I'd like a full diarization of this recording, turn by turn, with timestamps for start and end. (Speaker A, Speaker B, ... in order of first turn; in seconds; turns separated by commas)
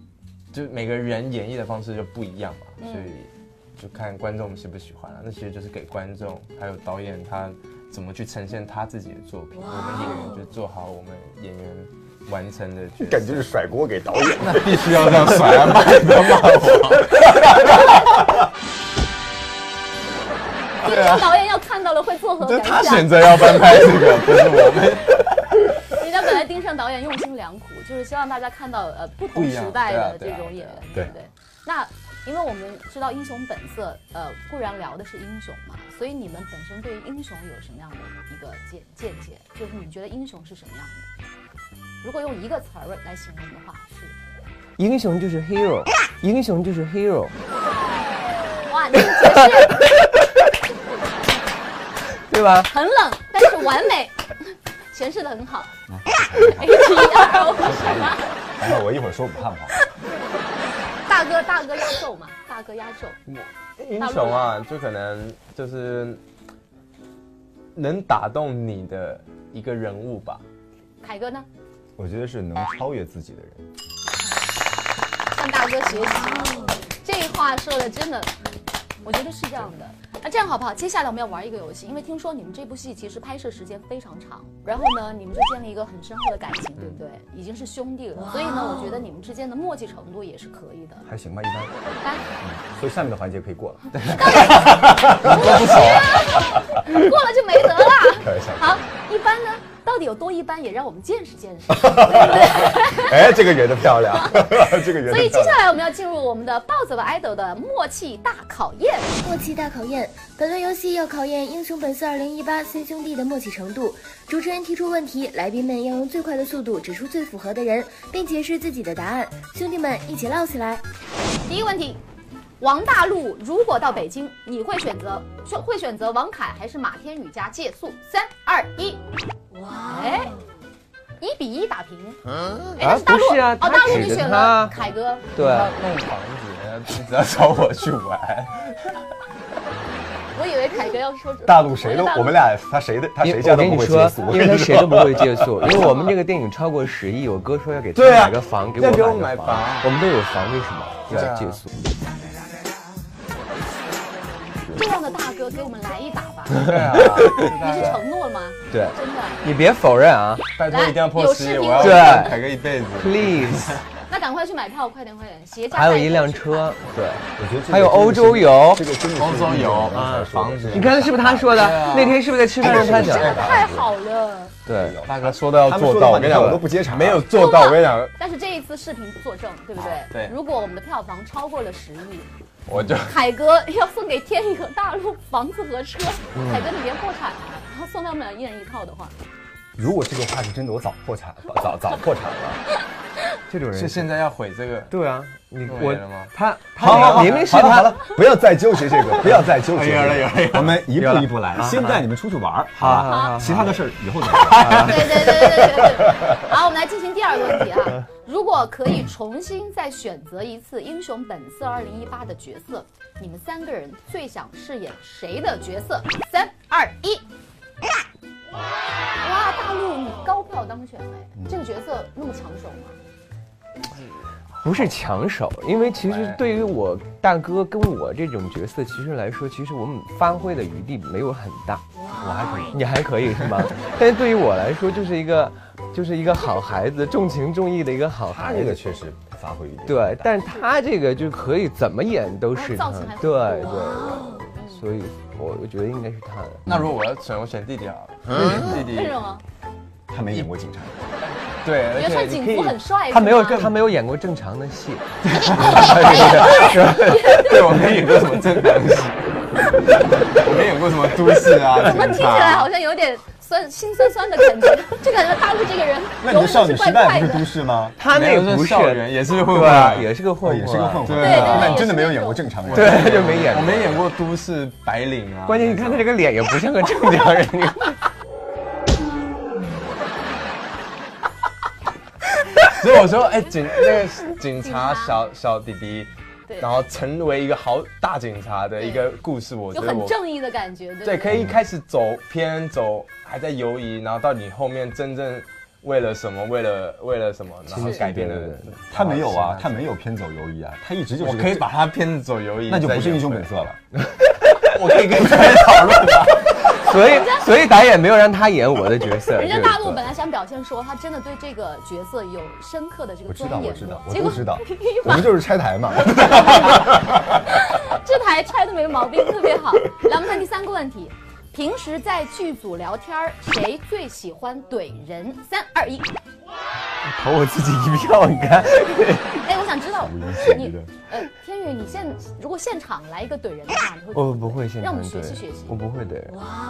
Speaker A: 0.5-13.5, Speaker B: 2.8-3.1, Speaker C: 13.0-15.8, Speaker A: 14.4-18.0, Speaker C: 17.2-18.1, Speaker B: 20.8-24.2, Speaker A: 20.8-21.4, Speaker A: 22.4-25.7, Speaker B: 25.8-41.1, Speaker A: 29.3-30.8, Speaker B: 42.0-44.2, Speaker D: 44.8-47.4, Speaker B: 48.7-49.8, Speaker D: 49.1-49.6, Speaker D: 52.3-52.7, Speaker B: 52.7-55.7, Speaker C: 55.9-59.8, Speaker B: 56.4-58.4, Speaker B: 61.1-63.2, Speaker A: 63.3-66.2, Speaker B: 64.0-64.5, Speaker A: 67.8-70.4, Speaker B: 71.0-71.5, Speaker C: 72.0-73.6, Speaker B: 75.3-78.3, Speaker B: 79.0-91.1, Speaker C: 91.1-91.7, Speaker B: 92.0-92.3, Speaker C: 92.4-96.6, Speaker A: 93.9-96.2, Speaker B: 94.1-103.3, Speaker C: 98.0-98.8, Speaker C: 101.7-105.7, Speaker B: 104.1-109.2, Speaker E: 109.2-120.8, Speaker B: 121.5-122.0, Speaker B: 122.6-129.0, Speaker B: 129.9-130.4, Speaker B: 131.2-132.2, Speaker B: 132.8-135.3, Speaker D: 132.8-134.8, Speaker D: 135.3-135.8, Speaker A: 135.4-139.1, Speaker B: 140.3-142.4, Speaker C: 141.4-145.7, Speaker D: 143.2-151.7, Speaker B: 145.8-146.1, Speaker A: 147.9-149.9, Speaker A: 151.1-151.6, Speaker B: 154.7-159.4, Speaker D: 156.5-158.0, Speaker A: 156.6-158.0, Speaker D: 158.7-160.5, Speaker A: 160.6-163.9, Speaker B: 160.7-162.4, Speaker D: 161.8-162.4, Speaker D: 163.0-163.8, Speaker B: 164.1-166.7, Speaker D: 165.7-168.8, Speaker C: 167.4-171.8, Speaker A: 169.1-173.4, Speaker D: 169.9-173.5, Speaker C: 172.6-173.9, Speaker B: 172.7-174.6, Speaker D: 174.7-175.0, Speaker C: 174.7-177.2, Speaker A: 175.1-178.1, Speaker B: 177.3-182.3, Speaker A: 179.8-180.3, Speaker A: 182.7-183.2, Speaker B: 183.0-189.1, Speaker D: 186.3-186.7, Speaker C: 189.8-192.6, Speaker D: 193.5-194.1, Speaker A: 193.7-195.0, Speaker D: 194.9-198.1, Speaker A: 195.6-197.5, Speaker C: 196.8-206.3, Speaker A: 199.5-200.9, Speaker D: 200.9-202.0, Speaker D: 202.8-203.8, Speaker B: 203.1-203.4, Speaker A: 204.4-205.5, Speaker D: 204.5-205.1, Speaker B: 204.7-217.2, Speaker B: 219.2-223.0, Speaker D: 224.6-231.8, Speaker A: 226.0-226.4, Speaker C: 232.2-232.9, Speaker D: 232.7-238.8, Speaker C: 238.2-240.4, Speaker D: 239.9-246.7, Speaker B: 242.5-244.9, Speaker A: 246.7-249.2, Speaker C: 248.4-248.7, Speaker B: 248.6-249.4, Speaker C: 250.1-251.1, Speaker A: 251.6-252.8, Speaker B: 251.9-253.8, Speaker D: 253.1-258.1, Speaker A: 255.2-259.3, Speaker B: 255.7-257.8, Speaker A: 260.2-262.7, Speaker B: 261.8-267.5, Speaker C: 266.2-268.0, Speaker D: 268.0-271.2, Speaker A: 268.1-270.2, Speaker C: 270.4-273.4, Speaker A: 271.0-271.9, Speaker B: 271.2-272.5, Speaker A: 272.6-276.1, Speaker D: 272.7-274.1, Speaker D: 275.5-278.0, Speaker A: 282.6-290.2, Speaker B: 284.5-285.2, Speaker B: 288.8-289.1, Speaker B: 289.7-291.4, Speaker A: 291.0-299.8, Speaker C: 291.3-291.6, Speaker D: 297.7-298.8, Speaker C: 298.9-301.7, Speaker A: 301.2-303.5, Speaker C: 302.7-303.8, Speaker D: 304.1-304.7, Speaker A: 304.6-306.9, Speaker D: 306.7-310.1, Speaker B: 306.9-307.6, Speaker B: 309.3-315.4, Speaker C: 313.3-317.4, Speaker B: 316.1-326.1, Speaker D: 327.0-329.4, Speaker B: 329.4-335.8, Speaker C: 330.0-330.9, Speaker D: 334.1-336.4